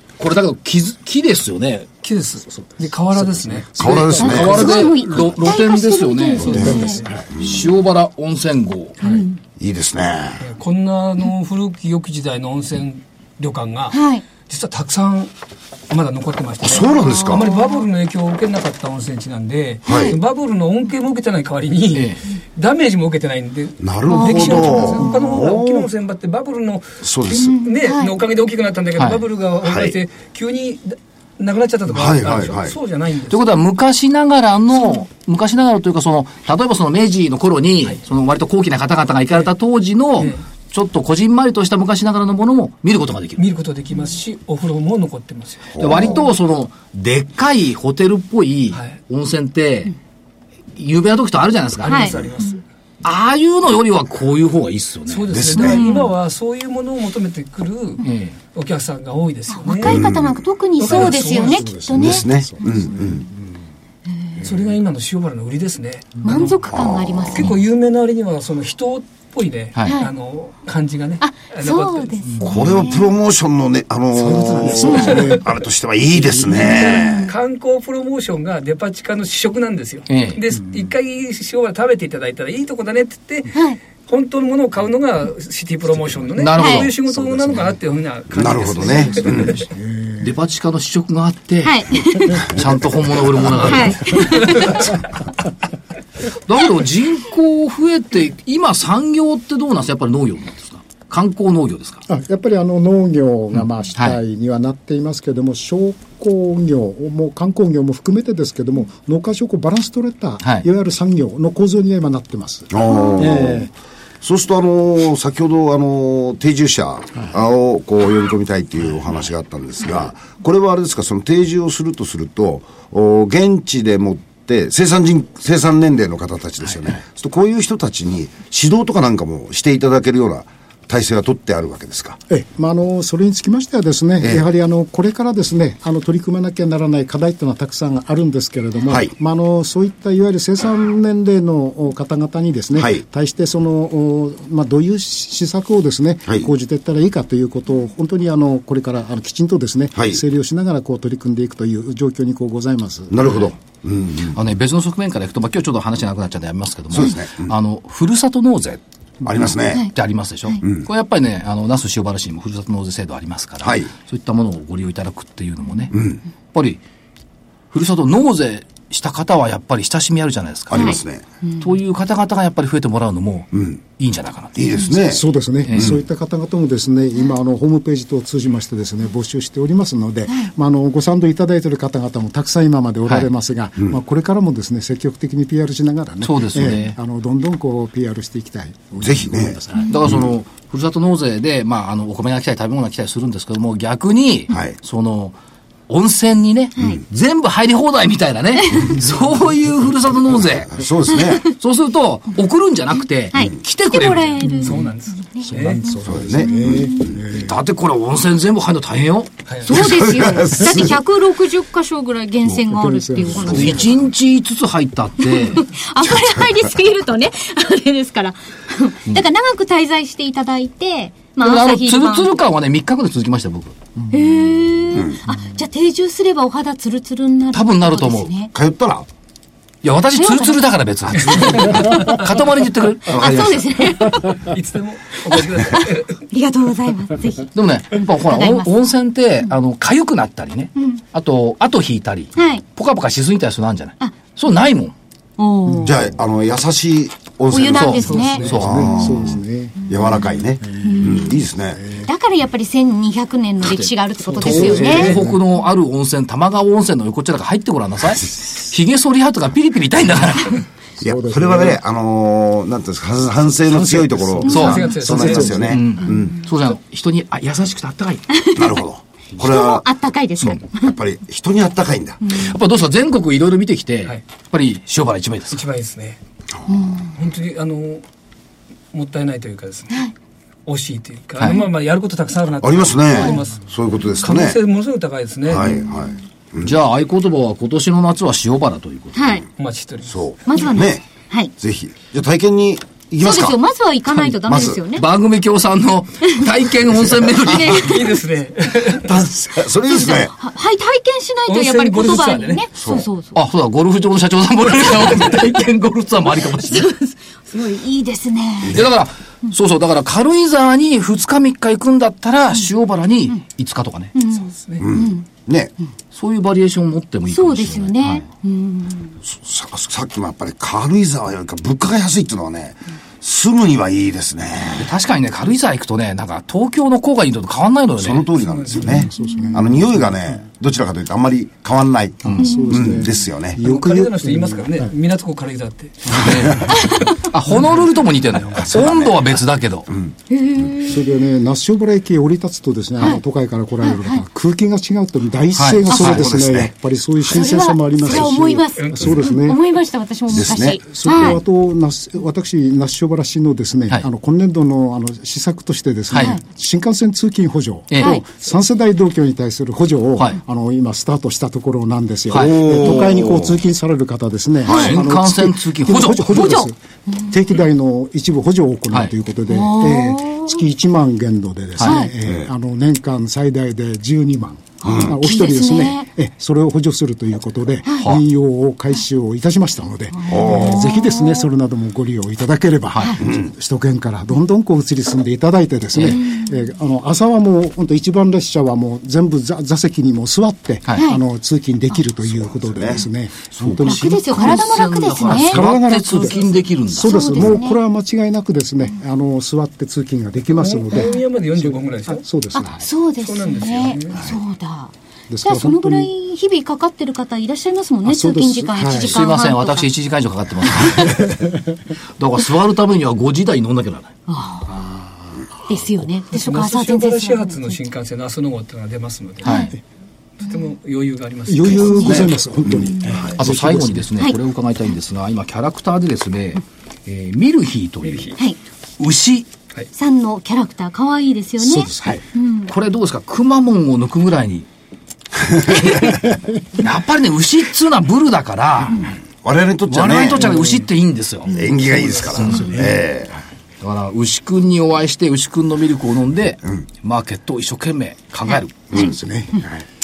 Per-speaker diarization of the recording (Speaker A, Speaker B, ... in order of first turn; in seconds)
Speaker A: 0.2-1.9, 3.9-9.0, 21.9-22.2, 29.0-29.2, 33.3-43.5, 45.8-49.9, 50.8-52.2, 53.0-55.4, 58.0-58.4, 80.1-80.4, 86.4-86.9, 90.2-94.9, 96.5-102.0, 103.6-104.2, 110.4-110.7, 154.3-158.8, 159.9-166.0, 166.5-166.8, 167.7-171.0, 171.6-174.6, 175.6-176.0, 186.2-187.0, 189.9-195.4, 195.9-200.8, 201.5-204.5, 207.3-209.4, 213.4-215.6, 221.4-223.8, 227.5-228.3, 229.8-233.4, 237.6-244.9, 247.7-249.0, 253.6-260.6, 264.5-264.9, 265.4-268.2, 272.3-275.6, 281.4-281.6, 286.6-289.4, 294.2-298.1, 303.4-306.9, 308.7-314.1, 316.1-318.2, 324.8-328.3, 336.1-339.9, 345.6-346.2, 356.1-356.4, 357.9-358.2, 362.3-363.1, 364.7-366.6, 380.6-380.9, 385.9-386.2, 393.8-397.4, 409.0-411.5, 412.2-414.2, 423.4-428.3, 429.0-429.5, 432.7-434.7, 436.8-439.1, 439.9-441.5, 443.8-448.9
Speaker B: 2.0-4.7, 6.4-7.2, 10.4-15.3, 15.9-33.5, 43.4-45.8, 51.8-52.6, 55.1-60.1, 60.8-61.7, 64.4-66.6, 67.3-72.5, 74.1-75.4, 77.3-89.7, 94.3-94.9, 204.6-205.8, 209.5-209.7, 231.4-232.2, 234.3-236.2, 254.5-255.2, 264.4-265.6, 275.5-276.2, 277.2-278.0, 278.9-280.0, 280.7-283.6, 284.2-285.7, 289.6-290.2, 297.7-299.1, 301.5-302.7, 314.3-314.9, 328.4-329.1, 333.6-336.9, 337.5-337.8, 348.8-349.2, 400.5-402.2, 403.2-404.3, 416.3-419.7, 420.4-422.3, 428.0-428.3
Speaker C: 3.8-4.8, 6.5-6.8, 9.6-10.4, 16.6-17.5, 19.9-20.1, 23.8-25.9, 27.0-27.6, 29.6-29.9, 31.9-32.8, 45.7-46.2, 55.3-55.8, 59.8-60.4, 61.9-63.2, 66.7-67.3, 72.4-77.3, 88.3-89.6, 112.7-113.7, 114.2-132.2, 134.2-134.4, 142.7-143.0, 149.9-150.2, 153.1-154.4, 156.9-157.6, 159.2-159.9, 160.6-160.9, 163.6-163.9, 165.9-166.2, 170.7-171.2, 173.5-173.8, 174.6-176.0, 189.0-190.2, 194.5-194.8, 200.4-201.5, 206.0-207.2, 209.7-211.0, 228.5-229.1, 233.1-233.7, 245.8-251.8, 261.0-266.4, 268.6-269.9, 270.5-272.4, 282.6-284.6, 285.5-286.8, 290.1-291.0, 291.6-293.6, 294.4-294.8, 298.9-300.3, 302.8-303.1, 308.6-308.9, 314.8-315.7, 319.2-324.9, 328.0-333.6, 338.5-340.1, 345.9-346.7, 350.3-350.8, 362.3-363.6, 364.7-364.9, 372.2-372.5, 374.8-375.2, 380.3-380.9, 383.2-383.5, 392.2-393.9, 422.7-423.4, 439.4-440.5, 441.5-443.4
Speaker D: 4.2-7.0, 9.0-9.4, 13.9-14.2, 17.1-17.8, 19.9-20.2, 24.1-25.4, 27.3-28.1, 51.9-52.2, 55.6-56.1, 59.5-62.3, 66.2-67.5, 71.2-73.1, 76.5-77.3, 86.5-86.9, 91.6-92.5, 93.6-94.9, 170.7-171.6, 198.6-199.0, 201.1-201.5, 203.3-207.1, 209.6-213.9, 215.2-222.3, 224.1-228.5, 230.2-230.6, 231.3-232.1, 233.1-234.4, 235.5-238.7, 240.8-241.0, 242.3-242.6, 245.4-246.0, 247.5-248.5, 250.8-251.4, 252.0-255.2, 268.3-268.8, 269.4-270.9, 272.2-272.5, 276.7-277.0, 289.1-289.4, 290.5-291.5, 293.2-295.1, 297.4-298.1, 299.9-303.4, 304.9-305.4, 306.5-308.8, 314.1-315.3, 317.3-319.1, 329.2-329.6, 332.4-332.9, 336.7-337.2, 340.3-341.1, 343.8-344.2, 345.9-346.2, 347.3-351.4, 356.1-356.4, 366.3-367.3, 369.5-370.6, 371.8-372.1, 374.8-376.1, 377.9-378.1, 380.2-381.4, 386.1-386.5, 393.8-395.6, 397.0-397.8, 400.9-401.2, 402.5-409.9, 410.6-411.3, 414.3-414.7, 415.7-417.8, 419.4-419.7, 422.9-423.2, 429.9-432.7, 448.9-449.6
Speaker E: 60.9-63.5, 74.6-75.4, 89.0-90.3, 102.1-113.7, 132.3-153.2, 175.0-189.9, 205.4-207.5, 212.5-214.0, 248.2-249.9, 250.6-251.1, 251.8-252.1, 254.4-255.4, 261.0-261.8, 263.7-265.8, 328.7-330.2, 332.2-334.9, 340.8-349.6, 350.4-366.8, 367.3-402.9, 405.3-406.1, 408.1-409.2, 414.7-415.4, 421.5-424.1, 431.6-432.2, 440.4-440.9, 441.5-442.9, 448.9-449.7